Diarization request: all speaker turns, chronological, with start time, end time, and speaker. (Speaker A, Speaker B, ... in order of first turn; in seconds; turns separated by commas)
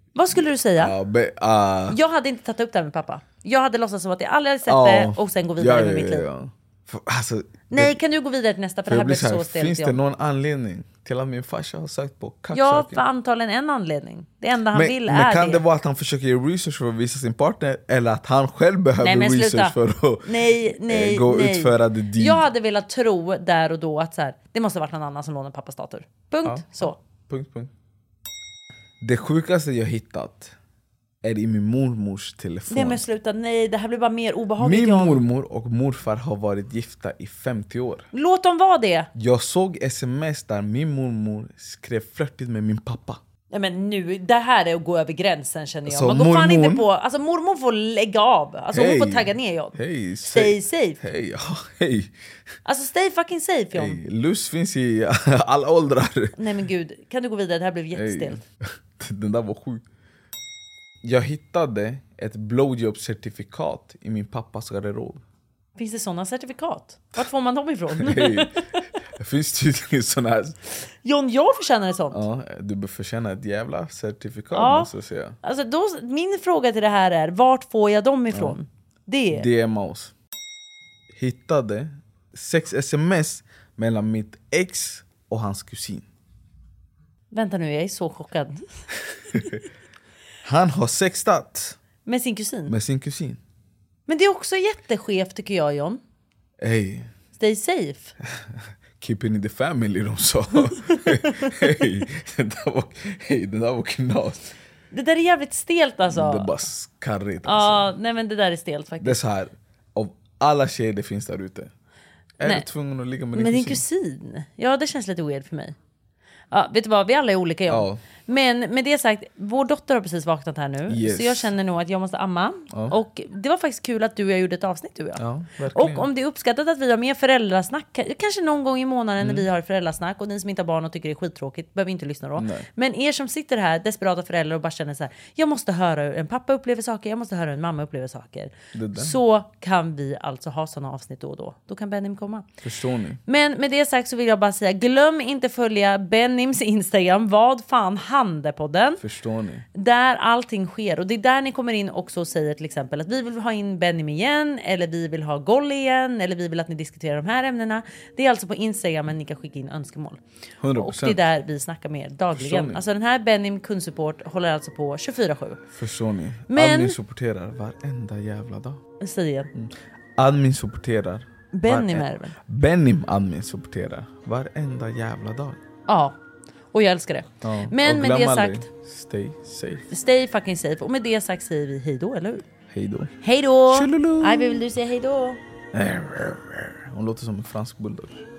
Speaker A: 0.2-0.9, Speaker B: 0.8-2.0, Speaker A: 1.9-6.3, Speaker B: 4.7-8.0, Speaker A: 7.7-10.0, Speaker B: 8.9-13.0, Speaker A: 12.5-15.6, Speaker B: 14.7-22.5, Speaker A: 19.0-27.0, Speaker B: 26.4-27.7, Speaker B: 29.0-30.6, Speaker B: 31.2-33.1, Speaker A: 32.7-35.2, Speaker B: 34.6-38.1, Speaker A: 38.1-39.1, Speaker B: 39.1-43.2, Speaker A: 43.5-49.8, Speaker B: 45.9-46.9, Speaker B: 48.7-52.1, Speaker A: 50.3-51.0, Speaker A: 52.6-54.0, Speaker B: 53.7-56.4, Speaker A: 56.4-58.4, Speaker B: 57.9-59.8, Speaker B: 61.0-65.2, Speaker A: 65.8-68.9, Speaker B: 67.9-68.6, Speaker B: 69.2-70.6, Speaker A: 71.0-72.2, Speaker B: 72.1-75.4, Speaker A: 74.5-74.9, Speaker A: 75.4-79.5, Speaker B: 78.3-78.6, Speaker B: 79.3-80.1, Speaker B: 81.1-86.1, Speaker A: 87.3-88.6, Speaker B: 90.4-91.8, Speaker A: 92.0-92.8, Speaker B: 92.7-93.4, Speaker A: 94.1-96.0, Speaker B: 96.6-97.1, Speaker A: 97.4-98.2, Speaker B: 99.0-104.5, Speaker A: 100.9-101.5, Speaker A: 104.9-106.5, Speaker B: 106.1-107.9, Speaker A: 107.5-109.2, Speaker B: 109.0-111.7, Speaker B: 112.4-113.8, Speaker A: 113.3-115.8, Speaker A: 116.5-142.5, Speaker B: 117.7-118.0, Speaker B: 120.9-121.5, Speaker B: 122.7-123.0, Speaker B: 125.2-126.1, Speaker B: 129.2-129.5, Speaker B: 132.4-132.7, Speaker B: 138.7-139.2, Speaker B: 142.6-143.2, Speaker A: 143.3-149.0, Speaker B: 149.0-149.7, Speaker A: 149.7-160.2, Speaker B: 160.6-161.2, Speaker A: 160.8-165.6, Speaker B: 162.3-162.8, Speaker B: 165.7-168.8, Speaker A: 166.5-167.0, Speaker A: 169.0-169.5, Speaker B: 169.5-175.6, Speaker A: 171.5-172.3, Speaker A: 175.9-176.2, Speaker A: 176.7-178.7, Speaker B: 177.4-179.9, Speaker A: 179.9-182.4, Speaker B: 182.7-183.1, Speaker A: 183.2-185.4, Speaker B: 183.7-184.6, Speaker B: 185.7-188.2